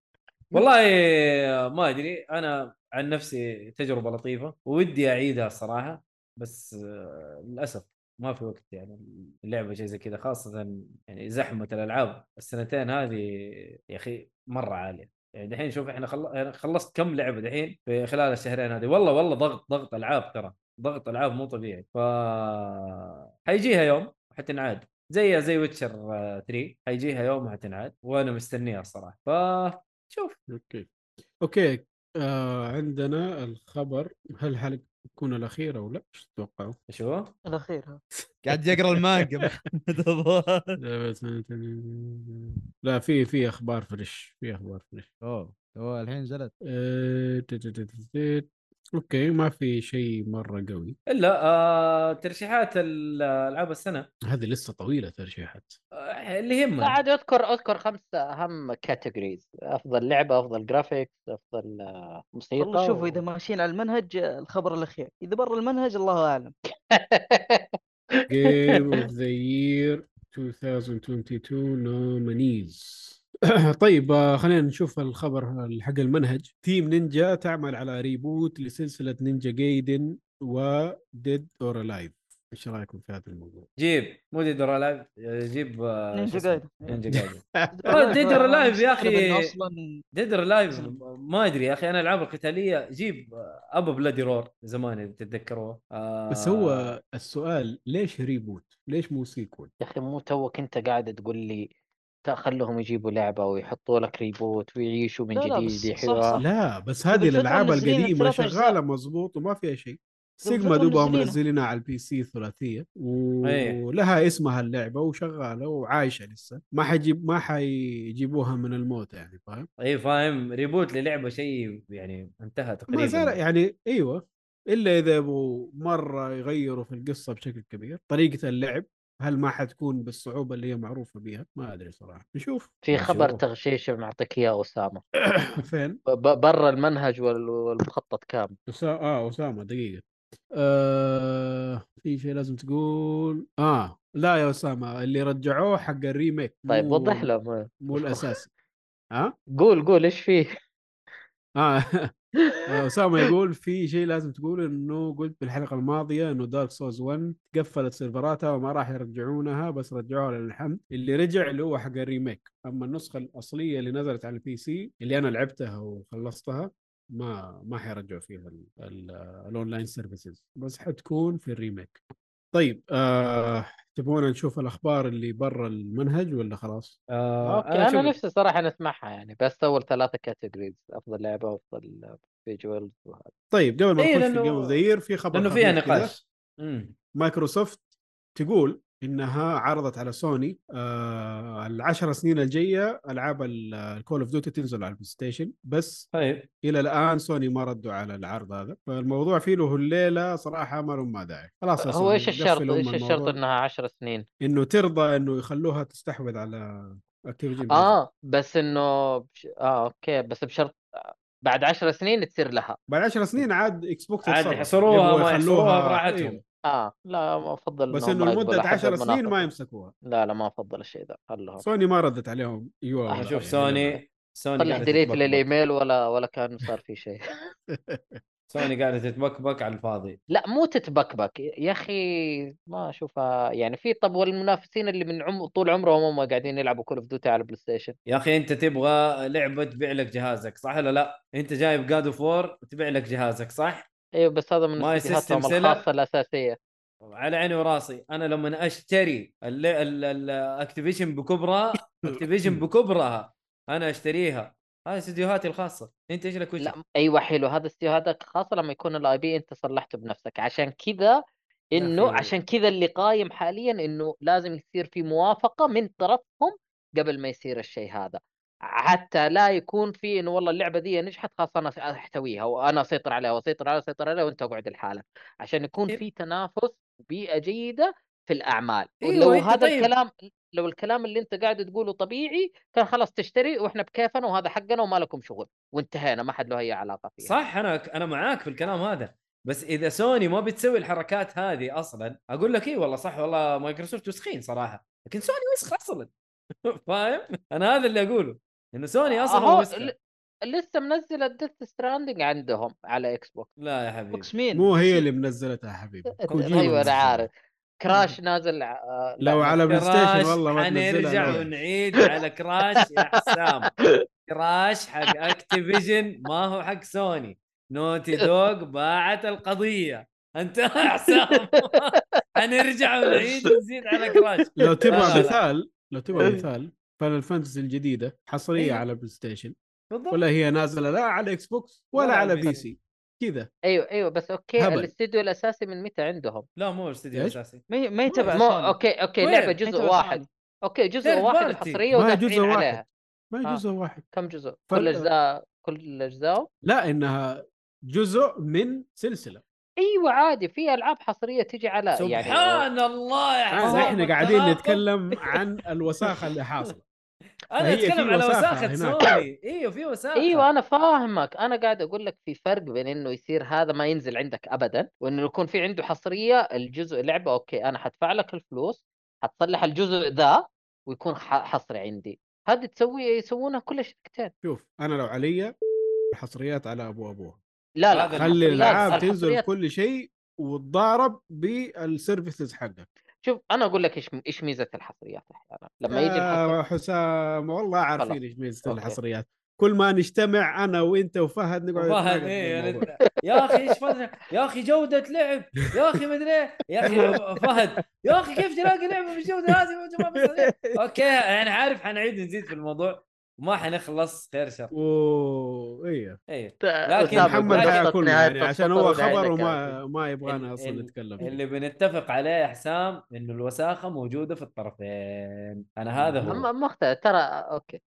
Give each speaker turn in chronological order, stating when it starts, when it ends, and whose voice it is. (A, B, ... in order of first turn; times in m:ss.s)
0:00.5-0:30.4 A
0:30.5-0:30.9 B
0:31.4-0:36.8 B
0:36.9-0:37.3 A
0:37.5-0:38.0 C
0:38.4-0:40.8 D
0:40.8-0:45.1 B
0:45.2-0:46.5 D
0:46.7-0:50.9 B
0:51.1-0:54.1 A
0:54.3-0:55.8 B
0:56.0-0:57.0 A
0:56.8-1:03.2 E
1:02.6-1:06.5 C
1:06.9-1:08.2 E
1:08.3-1:13.2 B
1:13.7-1:23.7 B
1:23.8-1:29.5 A
1:26.1-1:27.0 C
1:27.1-1:28.4 B
1:27.7-1:30.0 C
1:30.1-1:36.9 A
1:36.3-1:39.7 B
1:39.8-1:41.6 E
1:42.2-1:46.4 E
1:45.3-1:46.4 C
1:46.3-1:59.7 B
1:47.1-1:48.8 C
1:50.4-1:51.4 C
1:53.4-1:53.8 A
1:59.8-2:03.4 A
2:02.9-2:12.7 B
2:12.8-2:15.0 E
2:12.9-2:13.4 A
2:15.4-2:16.0 B
2:16.1-2:18.6 E
2:18.7-2:20.0 B
2:20.5-2:27.3 B
2:26.7-2:28.3 E
2:27.8-2:28.5 B
2:29.6-2:30.4 E
2:31.6-2:32.1 B
2:32.6-2:52.0 B
2:52.5-2:57.0 B
2:57.1-2:58.1 A
2:57.4-3:03.3 E
3:03.5-3:06.1 B
3:04.0-3:04.8 A
3:05.3-3:06.9 A
3:07.2-3:16.1 B
3:16.1-3:16.5 A
3:16.6-3:23.4 B
3:21.8-3:24.2 E
3:24.4-3:28.0 B
3:27.7-3:32.8 E
3:32.9-3:36.4 B
3:34.2-3:36.4 A
3:36.6-3:39.4 E
3:37.9-3:39.9 B
3:40.1-3:41.6 E
3:41.6-3:44.0 B
3:43.1-3:43.4 E
3:43.2-3:45.4 A
3:44.6-3:47.2 E
3:47.7-3:48.2 B
3:48.5-3:50.2 A
3:50.3-3:58.0 E
3:58.1-4:03.9 A
4:04.2-4:06.6 E
4:04.8-4:05.8 A
4:07.0-4:16.7 A
4:12.1-4:12.6 B
4:16.6-4:21.2 E
4:21.7-4:28.2 E
4:21.8-4:22.3 A
4:28.8-4:47.4 E
4:39.0-4:39.9 A
4:47.2-4:56.1 A
4:56.7-4:59.9 A
4:59.0-4:59.9 E
5:00.4-5:03.5 E
5:03.6-5:04.3 A
5:04.1-5:05.0 C
5:04.5-5:07.3 B
5:06.2-5:07.3 E
5:07.8-5:09.7 E
5:09.2-5:11.5 B
5:09.7-5:13.7 A
5:11.2-5:11.4 E
5:14.2-5:25.4 A
5:21.3-5:21.8 E
5:24.6-5:29.5 B
5:24.9-5:25.2 E
5:29.9-5:30.2 A
5:30.1-5:33.5 B
5:31.9-5:32.6 A
5:33.6-5:36.5 E
5:34.6-5:34.9 B
5:36.6-5:37.6 A
5:37.7-5:38.8 C
5:38.1-5:38.3 B
5:38.3-5:42.8 E
5:39.2-5:39.6 A
5:39.6-5:40.3 C
5:41.0-5:41.8 A
5:41.9-5:44.0 B
5:44.1-5:46.5 E
5:44.7-5:45.1 B
5:46.6-5:49.4 B
5:49.8-5:52.6 E
5:52.0-5:54.8 A
5:53.6-5:56.8 B
5:53.6-5:54.0 E
5:57.5-6:00.4 A
5:57.6-5:59.0 B
6:00.2-6:14.3 E
6:14.4-6:15.5 B
6:16.1-6:17.4 B
6:17.8-6:19.4 E
6:17.9-6:19.0 A
6:18.1-6:22.8 B
6:23.2-6:26.6 E
6:25.9-6:32.8 B
6:28.0-6:29.0 E
6:31.8-6:44.7 A
6:33.4-6:33.7 E
6:36.9-6:37.6 B
6:40.1-6:41.0 B
6:44.7-6:46.2 B
6:46.3-6:47.8 A
6:46.6-6:49.7 E
6:47.1-6:51.3 B
6:50.2-6:56.4 A
6:56.0-6:56.4 B
6:56.2-6:57.8 E